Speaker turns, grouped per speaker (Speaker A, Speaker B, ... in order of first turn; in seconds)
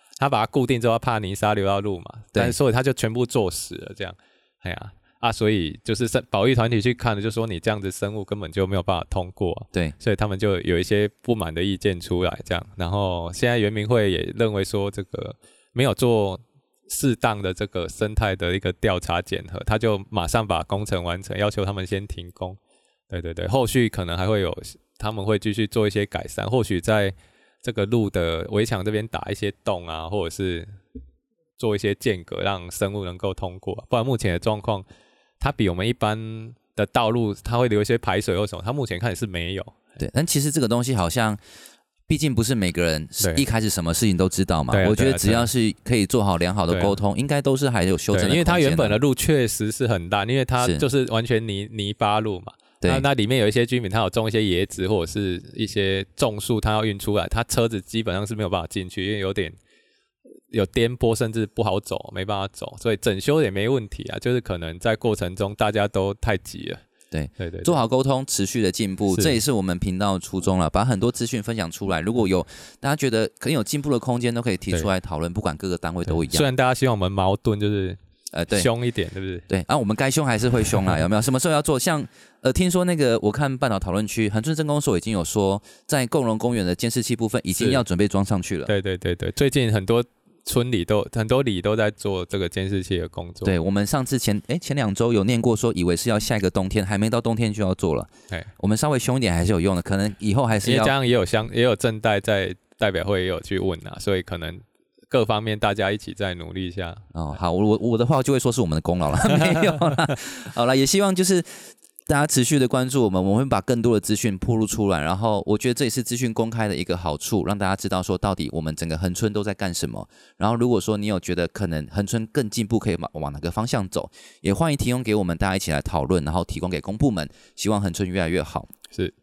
Speaker A: 0.2-22.6, 23.1-30.7, 31.6-34.8, 35.4-39.8, 43.2-43.4, 44.7-45.5, 46.7-47.0, 48.1-59.6, 60.5-66.8, 67.4-67.8, 69.1-69.4, 76.1-78.0, 78.5-79.5, 88.7-93.5, 100.6-107.1, 109.5-109.9
Speaker B: 40.0-41.4, 42.1-49.0, 50.6-50.8, 67.1-76.5, 78.3-78.7, 79.5-88.7, 93.4-100.9, 107.1-128.7